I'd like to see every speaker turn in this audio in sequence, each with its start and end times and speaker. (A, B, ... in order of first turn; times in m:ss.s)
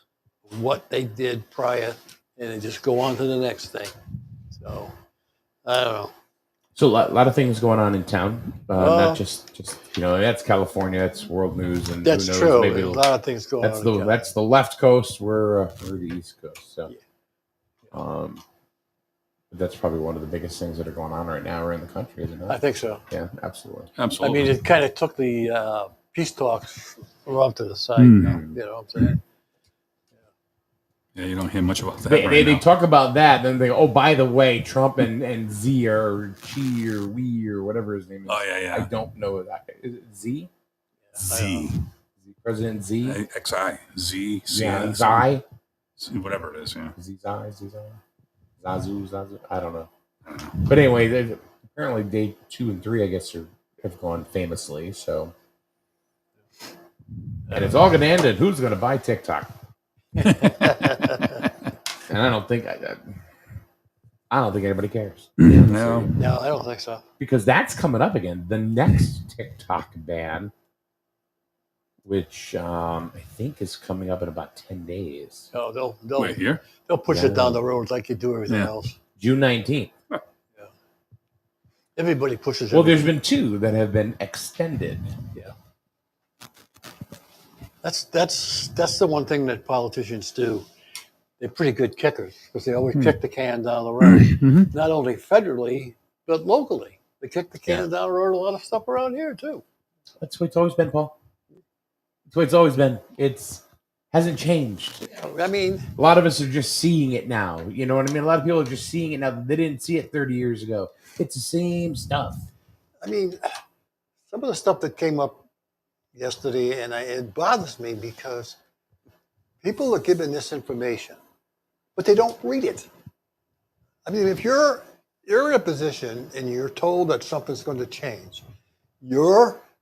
0:00.4-0:03.9 A
0:04.5-0:04.9 A
0:05.6-0:06.1 A
0:06.7-0:13.0 B
0:08.7-0:09.2 A
0:12.0-0:14.3 A
0:13.6-0:16.9 B
0:17.9-0:18.4 B
0:19.5-0:23.9 B
0:22.5-0:23.0 A
0:24.0-0:24.5 C
0:24.2-0:29.2 A
0:28.0-0:28.4 C
0:28.2-0:28.6 B
0:31.1-0:32.6 C
0:32.0-0:40.5 B
0:38.3-0:38.9 C
0:41.1-0:41.7 A
0:41.2-0:41.8 C
0:42.2-0:43.2 B
0:43.0-0:45.3 C
0:44.5-0:45.4 B
0:46.0-0:46.9 C
0:47.0-0:48.0 B
0:48.6-0:49.9 B
0:50.2-0:50.8 C
0:50.6-0:55.3 B
0:57.5-0:59.5 B
1:00.2-1:01.4 A
1:00.2-1:00.7 C
1:02.1-1:03.1 B
1:04.3-1:06.2 B
1:05.4-1:06.1 C
1:06.2-1:07.0 A
1:07.2-1:10.5 B
1:12.0-1:15.5 B
1:15.5-1:19.0 A
1:16.2-1:16.6 C
1:17.1-1:17.6 B
1:18.5-1:18.7 C
1:19.2-1:19.9 B
1:22.0-1:23.1 A
1:22.7-1:25.1 B
1:27.8-1:30.7 A
1:31.4-1:39.6 A
1:34.0-1:34.7 C
1:40.2-1:41.1 B
1:42.3-1:45.1 B
1:45.0-1:45.9 A
1:45.9-1:52.4 B
1:53.0-1:53.4 A
1:54.3-1:55.4 A
1:56.1-1:58.6 A
1:59.6-2:01.2 A
2:02.0-2:02.9 A
2:04.0-2:08.4 A
2:09.0-2:09.6 A